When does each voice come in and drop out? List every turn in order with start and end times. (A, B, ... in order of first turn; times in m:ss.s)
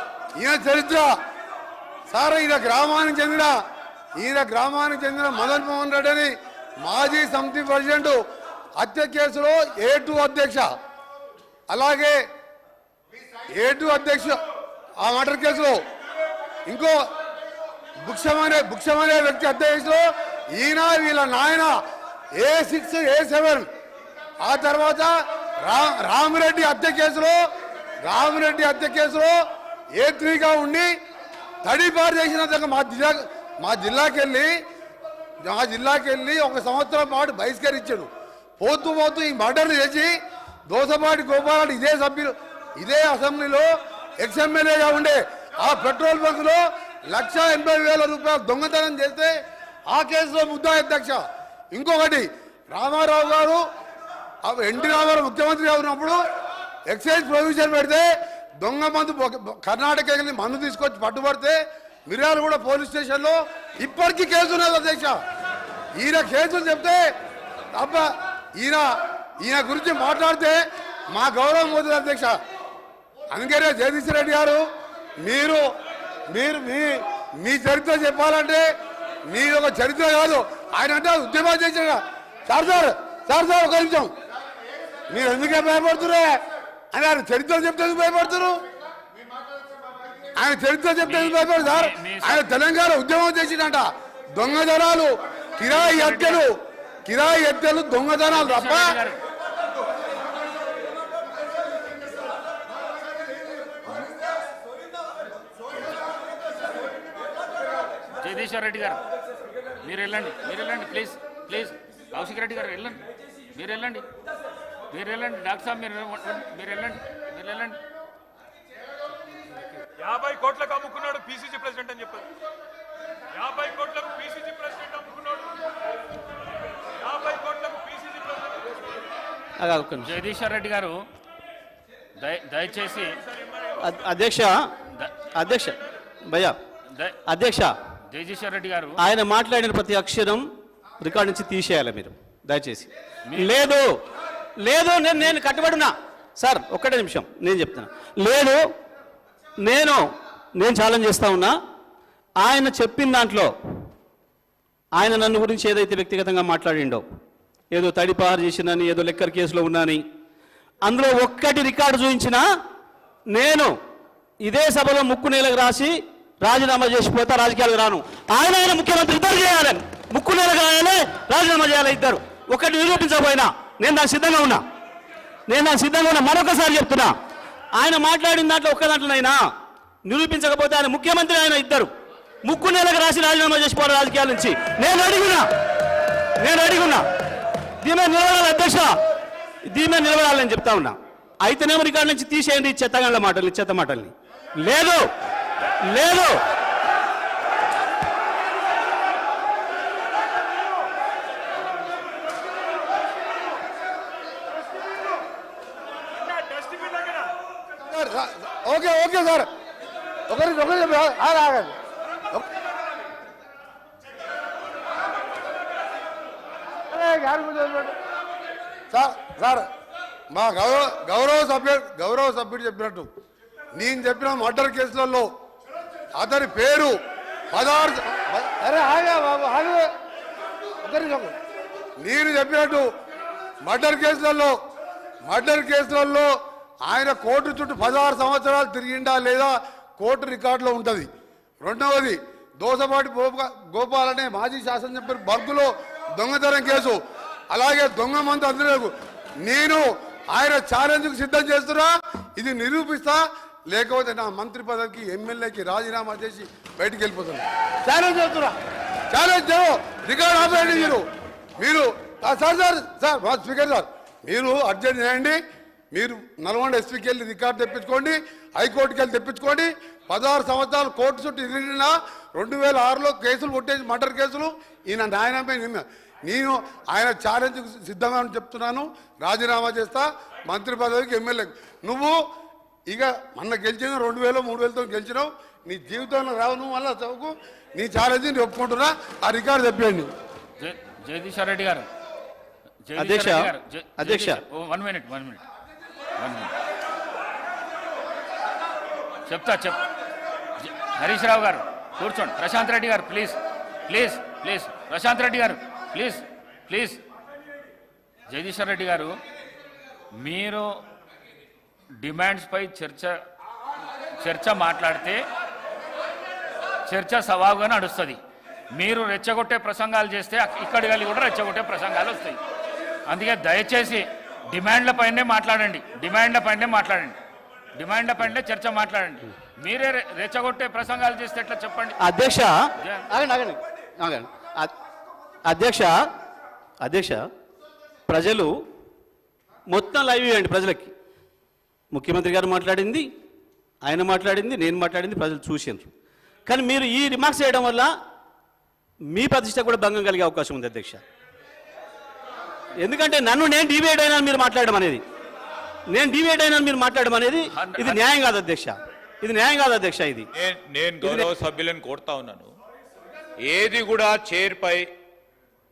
0:00.4-0:01.1 A
0:02.1-0:03.6 A
0:04.2-0:08.2 A
0:08.8-0:10.7 A
0:11.7-0:12.2 A
0:13.5-0:14.4 A
0:15.0-0:15.8 A
0:16.7-0:17.0 A
0:18.0-0:21.8 A
0:22.3-0:23.7 A
0:24.4-0:27.4 A
0:28.0-0:29.4 A
0:29.9-0:30.9 A
0:31.6-0:34.5 A
0:35.4-0:40.1 A
0:40.7-0:49.3 A
0:49.9-0:53.6 A
0:54.4-0:56.2 A
0:56.9-0:58.1 A
0:58.6-1:05.2 A
1:06.0-1:07.0 A
1:07.7-1:12.4 A
1:13.3-1:14.6 A
1:15.2-1:15.6 A
1:16.3-1:18.7 A
1:19.3-1:24.1 A
1:25.1-1:26.4 A
1:26.9-1:28.6 A
1:30.3-1:36.5 A
1:31.0-1:32.5 B
1:35.6-1:36.4 B
1:37.0-1:38.9 A
1:38.3-1:39.2 B
1:48.2-1:49.0 B
1:49.8-1:54.0 B
1:54.9-1:57.8 B
2:00.0-2:02.3 C
2:03.4-2:05.5 C
2:07.0-2:08.6 C
2:09.6-2:10.1 D
2:10.0-2:11.0 B
2:12.2-2:13.2 B
2:13.7-2:14.7 D
2:14.9-2:15.2 B
2:15.2-2:16.6 D
2:16.9-2:17.2 B
2:17.2-2:17.7 D
2:18.1-2:19.0 B
2:19.0-2:20.4 D
2:21.0-2:24.0 D
2:23.3-2:23.7 B
2:24.6-2:28.6 D
2:29.6-2:30.0 D
2:30.6-2:31.5 D
2:32.4-2:33.5 D
2:35.0-2:37.0 D
2:37.7-2:40.0 D
2:40.8-2:42.4 D
2:43.3-2:43.7 D
2:44.4-2:54.6 D
2:55.5-2:57.1 D
2:57.7-2:59.4 D
3:00.0-3:01.9 D
3:02.4-3:05.5 D
3:06.4-3:07.0 D
3:07.8-3:09.0 D
3:09.7-3:15.0 D
3:15.8-3:16.4 D
3:27.8-3:29.5 A
3:30.3-3:31.8 A
3:36.9-3:37.9 A
3:38.9-3:39.7 A
3:40.3-3:43.1 A
3:43.7-3:45.3 A
3:46.2-3:47.0 A
3:47.5-3:49.9 A
3:50.8-3:51.3 A
3:52.0-3:52.9 A
3:53.6-3:54.5 A
3:55.2-3:56.3 A
3:56.8-4:01.1 A
4:01.6-4:07.0 A
4:07.5-4:08.9 A
4:09.4-4:18.6 A
4:19.1-4:21.0 A
4:20.6-4:20.9 B
4:21.6-4:25.4 A
4:25.9-4:42.2 A
4:42.9-4:50.1 A
4:50.6-4:51.8 B
4:52.8-4:55.4 B
4:53.0-4:54.4 D
4:56.2-4:56.5 B
4:59.2-4:59.9 B
5:00.6-5:07.0 B
5:08.3-5:09.2 B
5:10.1-5:10.8 B
5:12.0-5:13.2 B
5:14.2-5:15.2 B
5:16.8-5:18.2 B
5:18.7-5:22.4 B
5:23.0-5:27.2 B
5:27.8-5:32.1 B
5:32.0-5:34.7 D
5:32.8-5:33.1 B
5:35.4-5:36.0 D
5:36.8-5:37.2 D
5:38.1-5:38.6 D
5:39.7-5:40.9 D
5:41.9-5:43.1 D
5:43.8-5:45.9 D
5:46.4-5:47.9 D
5:49.1-5:51.0 D
5:52.8-5:55.0 D
5:55.9-6:00.3 D
5:57.5-5:58.0 B
6:00.4-6:02.5 E
6:01.0-6:01.3 D
6:03.4-6:04.9 E